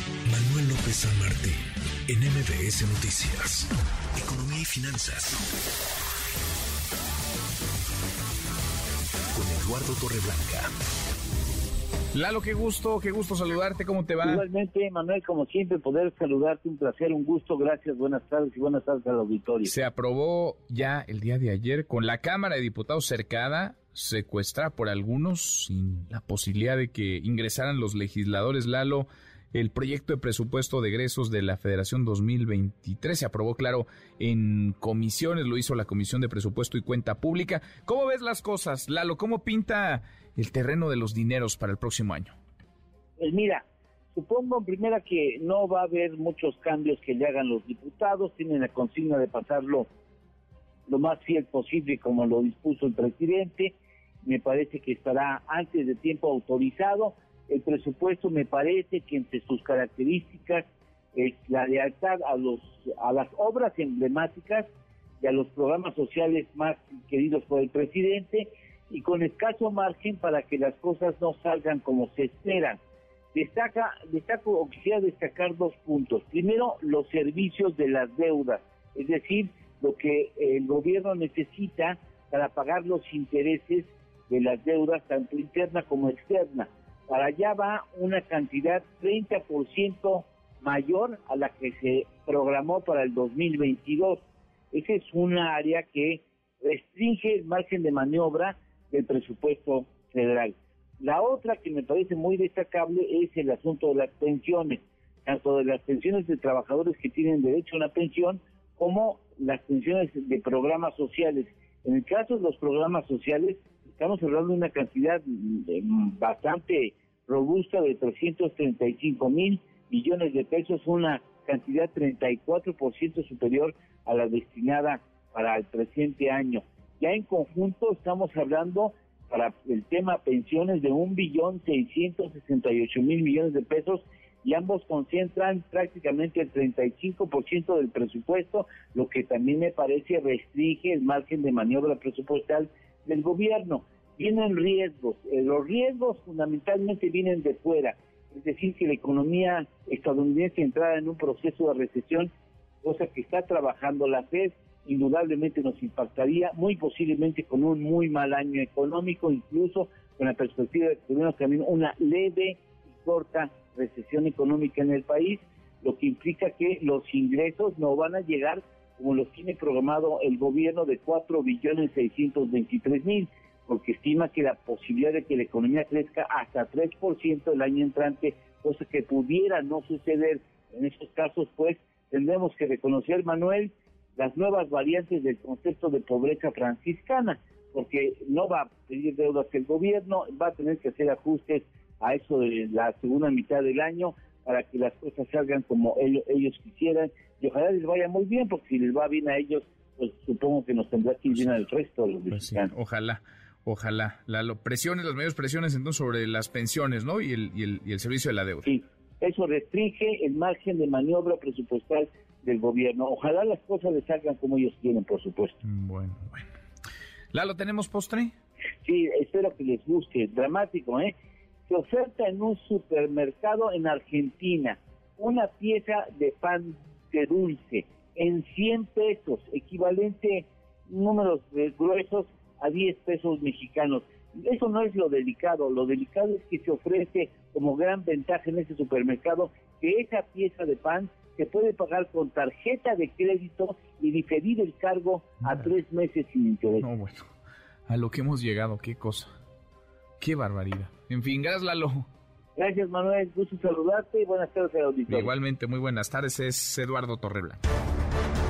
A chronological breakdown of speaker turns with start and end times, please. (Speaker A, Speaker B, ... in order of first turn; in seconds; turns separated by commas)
Speaker A: 0.2-1.5, Speaker A: 2.1-5.3, Speaker A: 9.3-10.7, Speaker B: 12.1-14.4, Speaker C: 14.2-19.7, Speaker B: 19.6-42.3, Speaker C: 43.2-49.9, Speaker C: 50.9-72.8, Speaker C: 73.3-152.3, Speaker C: 152.8-202.7, Speaker B: 202.3-208.7, Speaker C: 208.6-215.6, Speaker B: 215.6-216.5, Speaker B: 217.3-218.3, Speaker C: 218.8-221.1, Speaker C: 221.7-246.8, Speaker B: 246.8-247.2, Speaker B: 247.9-249.3, Speaker B: 250.2-252.1, Speaker C: 252.6-255.3, Speaker B: 255.1-257.6